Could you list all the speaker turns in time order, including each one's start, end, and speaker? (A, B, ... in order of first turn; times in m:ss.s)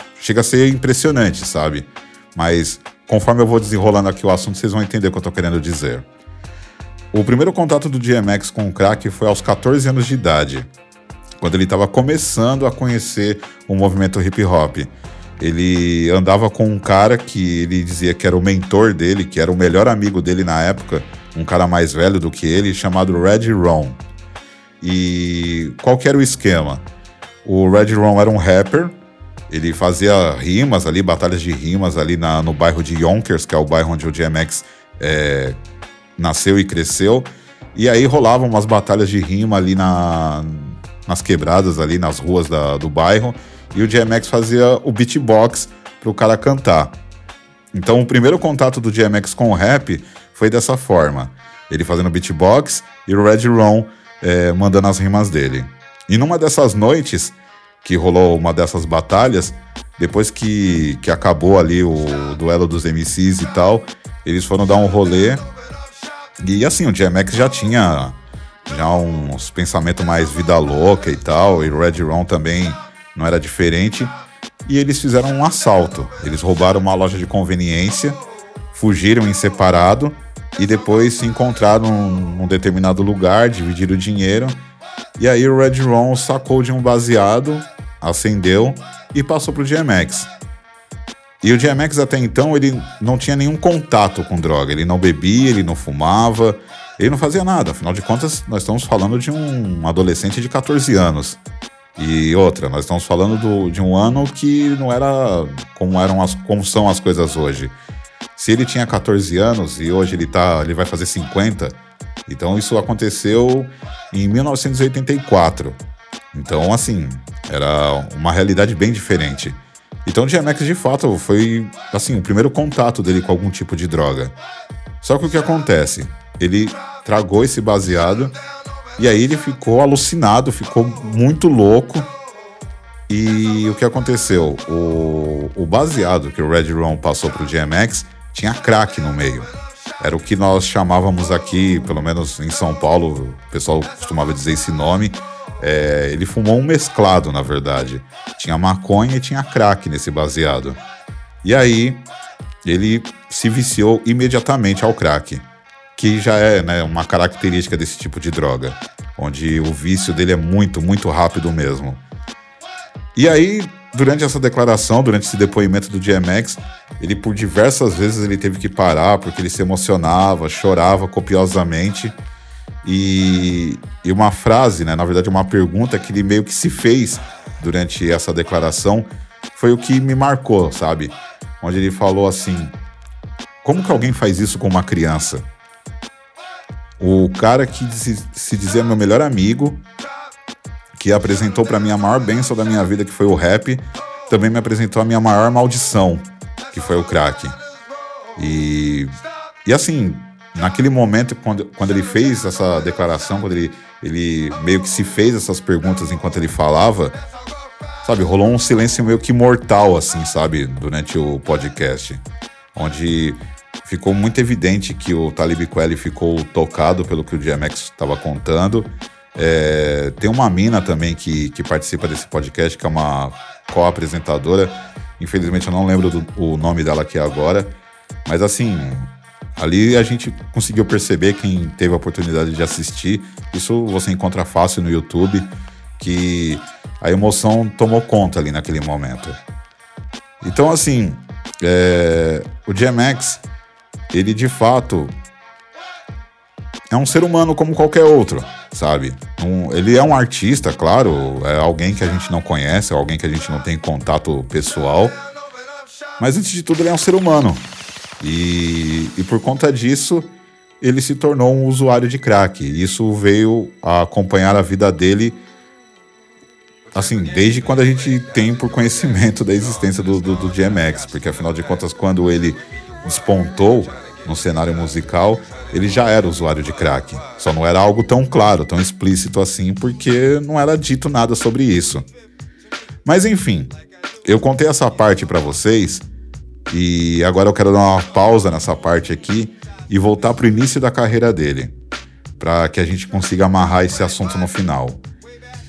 0:00.2-0:06.0 A
0:07.1-0:10.7 A
0:11.4-0:24.0 A
0:24.8-0:26.8 A
0:27.4-0:29.0 A
0:29.5-0:35.6 A
0:36.2-0:47.0 A
0:47.7-1:05.4 A
1:06.4-1:14.1 A
1:14.6-1:18.2 A
1:18.7-1:24.6 A
1:25.2-1:30.3 A
1:31.4-1:41.4 A
1:42.0-1:47.8 A
1:48.4-1:55.8 A
1:56.3-2:04.4 A
2:05.0-2:08.4 A
2:09.0-2:12.1 A
2:13.1-2:30.8 A
2:31.4-2:32.0 A
2:32.6-2:42.0 A
2:43.2-2:52.2 A
2:52.8-3:02.8 A
3:03.6-3:05.4 A
3:07.0-3:09.8 A
3:11.0-3:17.6 A
3:18.4-3:19.1 A
3:19.6-3:27.2 A
3:28.0-3:32.2 A
3:32.8-3:47.7 A
3:48.3-3:59.4 A
4:00.4-4:03.4 A
4:04.1-4:05.1 A
4:06.9-4:15.2 A
4:16.2-4:17.7 A
4:18.2-4:25.4 A
4:26.9-4:42.0 A
4:43.0-4:46.1 A
4:46.7-4:51.8 A
4:52.4-4:55.0 A